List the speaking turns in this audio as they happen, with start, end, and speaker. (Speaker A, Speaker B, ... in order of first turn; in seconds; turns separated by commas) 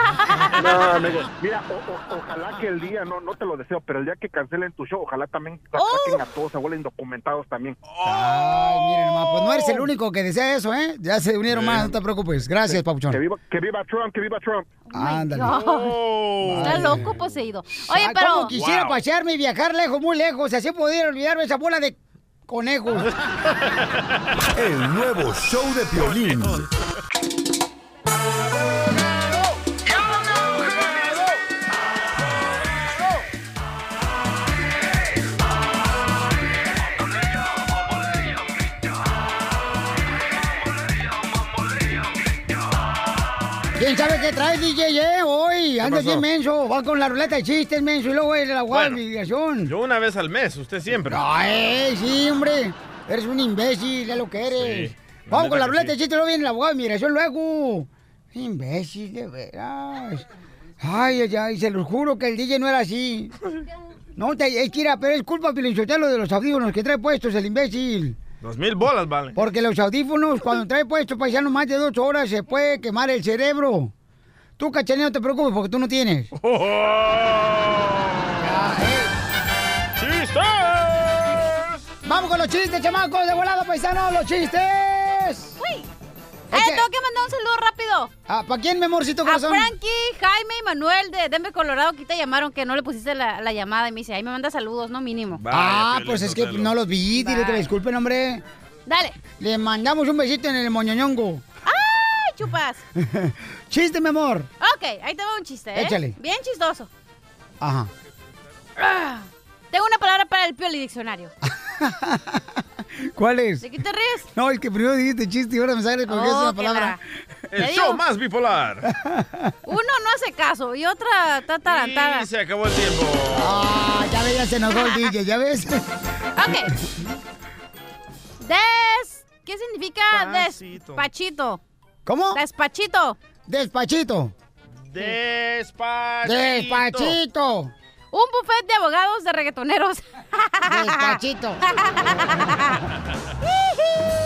Speaker A: 0.6-7.8, Speaker B: 5.7-6.2, Speaker C: 7.9-9.9, Speaker D: 8.0-13.2, Speaker C: 11.5-11.9, Speaker A: 12.7-14.7, Speaker B: 14.9-16.0, Speaker D: 14.9-15.6, Speaker C: 15.5-17.0, Speaker D: 16.4-17.2, Speaker B: 16.6-18.5, Speaker D: 17.9-23.1, Speaker C: 18.5-19.0, Speaker E: 24.5-26.6, Speaker C: 26.0-26.7, Speaker D: 43.8-49.7, Speaker C: 45.8-46.2, Speaker C: 48.7-49.0, Speaker C: 49.6-51.2, Speaker D: 51.0-60.2, Speaker C: 54.5-55.9, Speaker D: 60.8-63.3, Speaker D: 64.2-68.2, Speaker C: 68.4-69.4, Speaker D: 69.3-73.9, Speaker D: 74.6-76.3, Speaker C: 76.4-78.3, Speaker D: 78.4-79.1, Speaker C: 80.0-81.6, Speaker D: 82.0-85.6, Speaker B: 85.6-85.9, Speaker D: 86.5-86.9, Speaker B: 86.5-88.1, Speaker D: 88.3-89.7, Speaker B: 89.2-95.4, Speaker C: 95.4-96.7, Speaker D: 95.5-98.4, Speaker B: 97.2-97.7, Speaker B: 98.9-99.2, Speaker D: 99.3-101.4, Speaker B: 101.7-102.8, Speaker D: 103.0-104.5, Speaker B: 104.6-106.9, Speaker D: 105.7-106.1, Speaker D: 107.6-107.9, Speaker B: 108.8-111.3, Speaker D: 111.4-112.6, Speaker D: 113.1-113.7, Speaker B: 113.6-114.3, Speaker D: 114.3-117.0, Speaker B: 116.1-117.0, Speaker C: 117.5-118.9, Speaker B: 117.6-118.0, Speaker D: 118.8-119.5, Speaker B: 119.7-122.3, Speaker C: 121.7-123.7, Speaker D: 123.3-125.9, Speaker B: 126.4-126.7, Speaker B: 128.4-131.6, Speaker C: 130.1-131.0, Speaker D: 132.1-132.4, Speaker B: 132.3-133.2, Speaker D: 133.5-134.3, Speaker C: 134.9-137.2, Speaker D: 136.2-137.7, Speaker B: 138.1-142.8, Speaker D: 140.6-141.6, Speaker B: 143.4-144.1